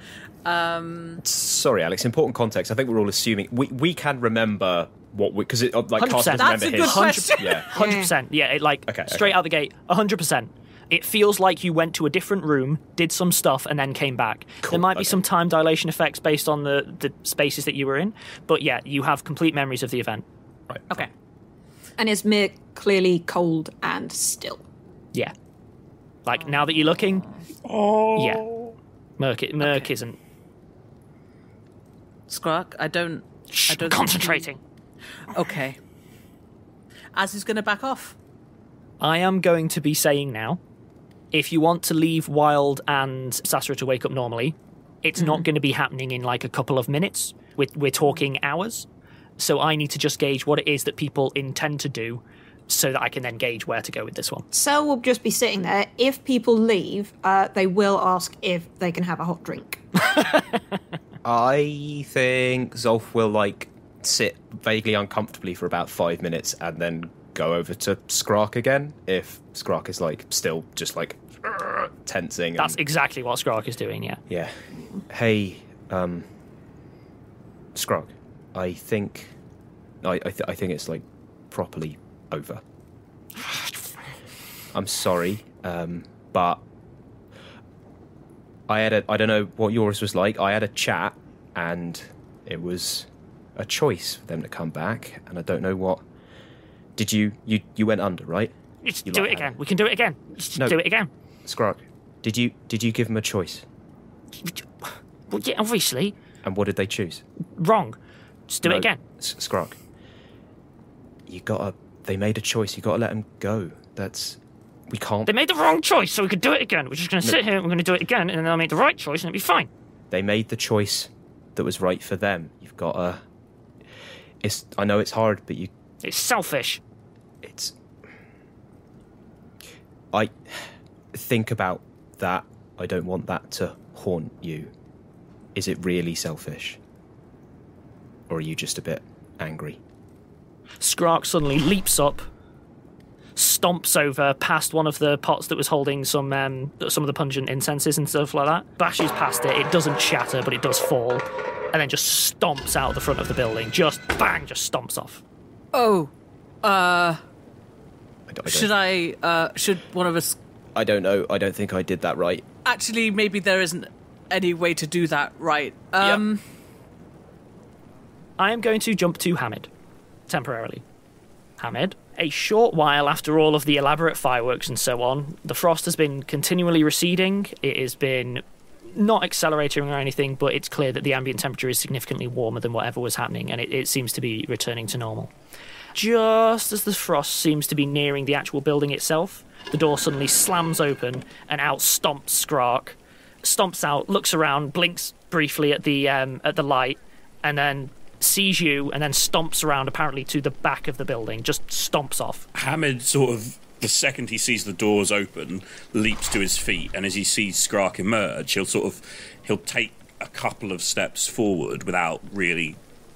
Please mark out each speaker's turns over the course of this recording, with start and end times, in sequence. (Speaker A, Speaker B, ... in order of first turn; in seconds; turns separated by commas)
Speaker A: 0.4-1.2, Speaker B: 1.2-7.7, Speaker C: 6.0-20.2, Speaker A: 6.3-7.7, Speaker D: 7.7-8.1, Speaker B: 8.9-9.4, Speaker B: 14.6-15.2, Speaker B: 20.7-21.0, Speaker D: 22.0-24.6, Speaker C: 26.2-27.2, Speaker A: 26.6-27.4, Speaker E: 27.6-28.7, Speaker C: 28.1-28.4, Speaker C: 29.2-30.2, Speaker A: 29.6-29.9, Speaker A: 32.3-34.5, Speaker C: 33.5-34.6, Speaker A: 35.3-35.8, Speaker A: 37.1-38.2, Speaker C: 39.0-40.6, Speaker C: 41.3-48.9, Speaker C: 49.4-54.5, Speaker D: 54.5-60.2, Speaker B: 61.2-72.8, Speaker C: 72.6-74.2, Speaker B: 74.3-76.3, Speaker B: 77.7-79.3, Speaker B: 80.0-82.6, Speaker C: 83.4-83.7, Speaker B: 84.7-86.6, Speaker B: 88.7-96.0, Speaker B: 97.0-98.5, Speaker C: 98.8-101.1, Speaker B: 99.0-99.6, Speaker B: 101.4-103.6, Speaker C: 104.4-106.2, Speaker B: 106.4-107.2, Speaker C: 107.6-109.0, Speaker B: 108.6-109.8, Speaker B: 111.3-115.3, Speaker C: 115.2-119.7, Speaker B: 120.1-123.2, Speaker B: 124.4-125.7, Speaker C: 126.0-126.8, Speaker B: 127.4-127.7, Speaker B: 130.1-134.7, Speaker B: 135.5-136.8, Speaker B: 138.3-139.8, Speaker C: 140.8-142.2, Speaker C: 143.3-155.2, Speaker A: 155.7-156.1, Speaker A: 156.6-157.2, Speaker B: 158.3-158.7, Speaker A: 158.4-160.4, Speaker B: 160.7-162.4, Speaker A: 162.6-166.4, Speaker C: 168.4-169.7, Speaker C: 170.3-170.8, Speaker C: 171.6-185.3, Speaker C: 185.9-202.4, Speaker E: 202.5-212.8